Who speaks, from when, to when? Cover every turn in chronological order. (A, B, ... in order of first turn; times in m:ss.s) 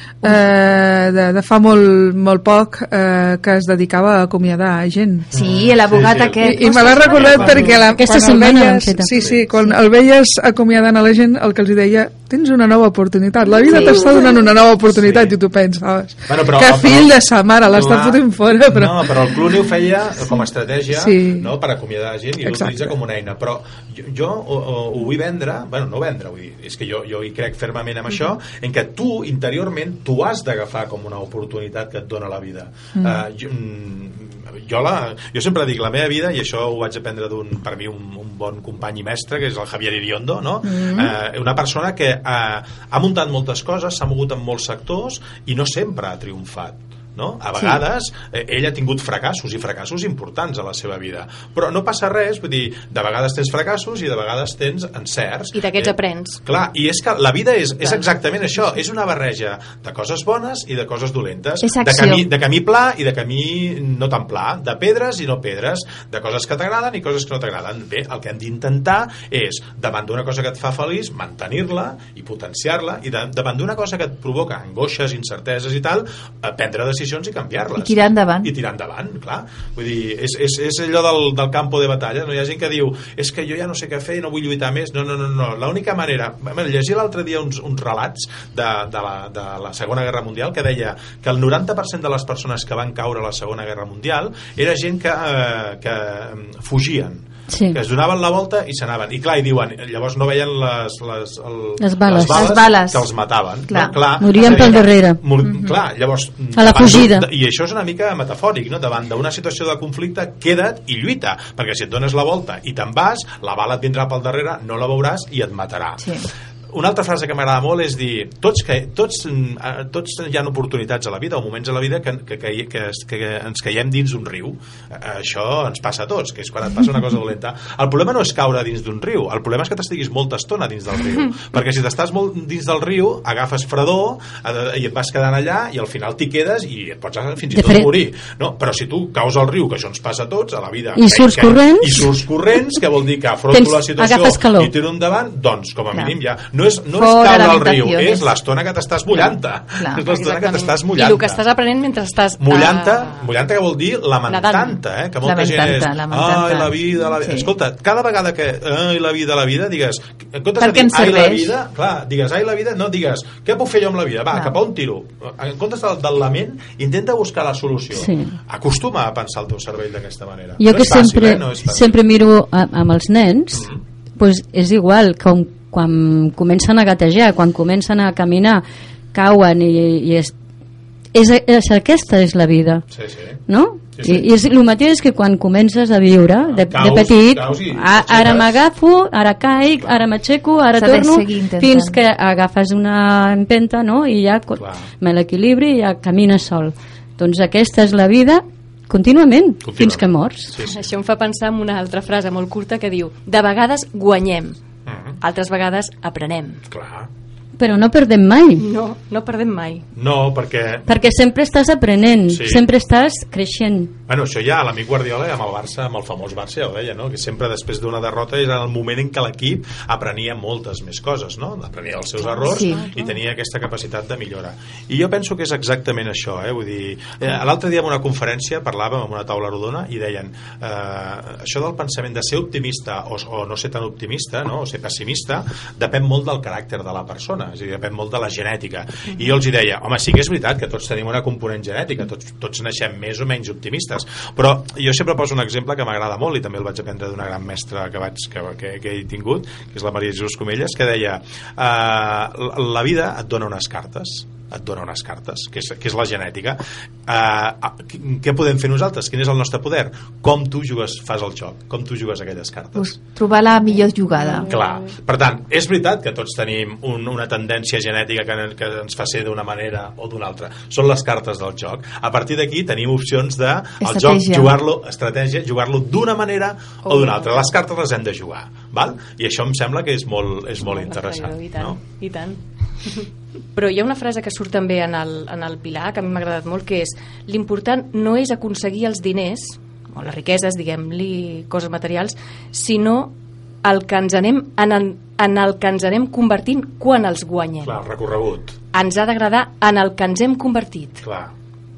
0:00.2-0:05.3 A
0:05.3-0:07.8 B
0:05.3-0:07.8 C
0:06.4-0:19.1 A
0:08.0-0:09.3 D
0:09.2-0:09.7 B
0:14.9-0:15.4 C
0:16.3-1:56.2 C
0:20.9-0:21.5 A
0:22.4-0:22.9 A
0:40.6-0:41.2 B
0:55.5-0:56.4 E
0:57.8-0:58.7 E
1:01.6-1:02.3 B
1:17.8-1:18.5 B
1:37.5-1:37.8 D
1:41.8-1:42.5 D
1:42.2-1:43.1 B
1:43.7-1:44.9 B
1:44.2-1:45.2 D
1:45.4-1:45.8 B
1:46.5-1:47.3 D
1:56.0-1:56.3 B
1:56.7-2:31.4 C
2:17.5-2:17.9 D
2:21.0-2:22.2 D
2:23.5-2:24.7 D
2:27.0-2:28.3 B
2:29.8-2:30.0 B
2:30.0-2:33.2 E
2:32.4-2:52.0 C
2:34.3-2:34.8 E
2:35.2-2:37.5 B
2:40.6-2:41.5 B
2:47.9-2:48.4 D
2:50.6-3:00.3 D
2:53.5-2:53.8 C
3:01.2-3:02.8 D
3:02.9-3:03.4 C
3:03.5-3:20.5 D
3:04.0-3:04.3 C
3:06.4-3:08.6 C
3:10.8-3:12.0 B
3:14.6-3:14.9 C
3:19.6-3:20.8 C
3:20.6-3:24.6 E
3:24.9-3:25.2 C
3:25.2-3:26.6 E
3:26.7-3:27.1 C
3:27.6-3:28.7 D
3:28.6-3:29.9 E
3:30.0-3:30.9 C
3:30.9-3:33.9 D
3:32.3-3:32.6 C
3:34.1-4:22.9 C
3:42.2-3:43.2 E
3:42.5-3:42.8 B
4:22.8-4:24.5 B
4:24.5-4:41.8 C
4:24.5-4:24.9 E
4:33.8-4:34.6 B
4:36.8-4:37.6 E
4:40.6-4:53.1 E
4:53.6-4:57.8 E
4:57.6-4:58.6 C
4:58.7-5:01.0 E
5:01.0-5:01.3 C